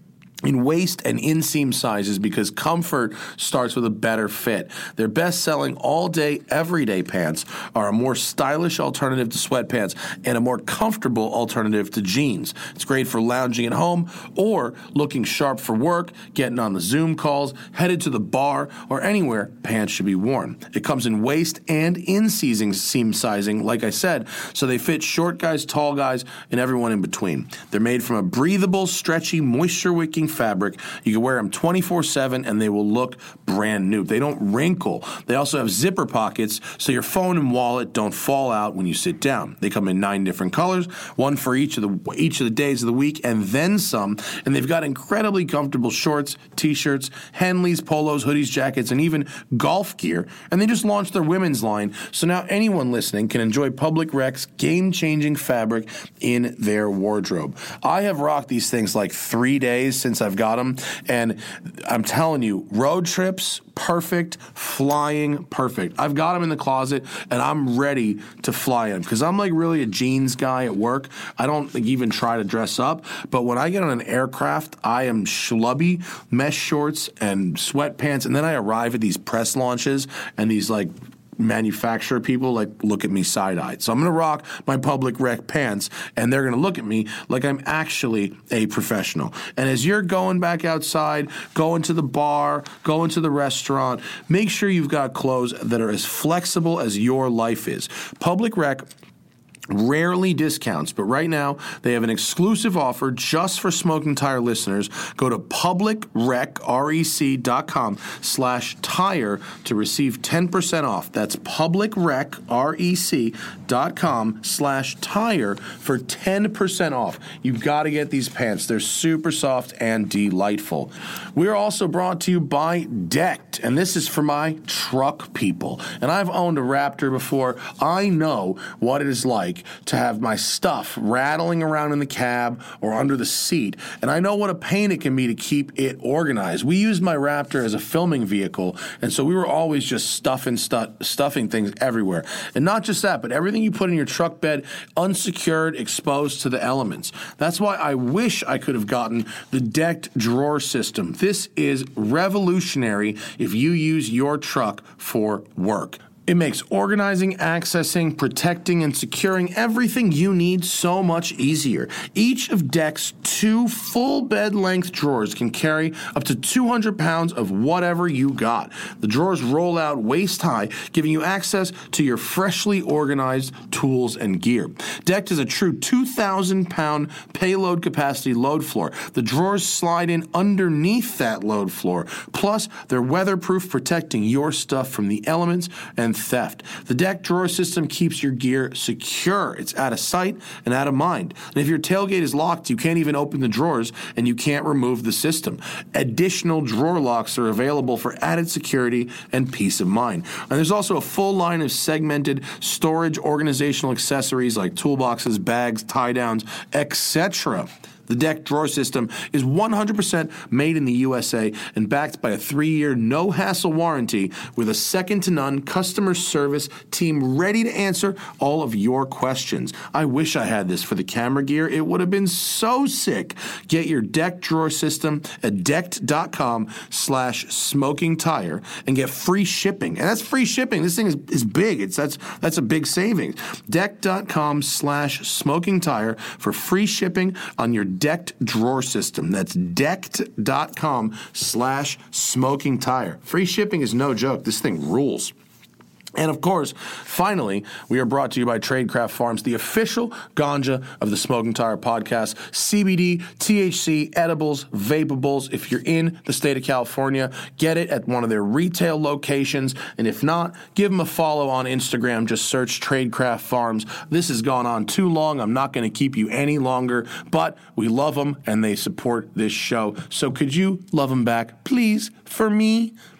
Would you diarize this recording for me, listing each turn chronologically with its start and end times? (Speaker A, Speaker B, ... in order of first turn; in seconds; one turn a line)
Speaker A: 0.4-98.9
Speaker A: 99.7-245.3
Speaker A: 246.2-272.9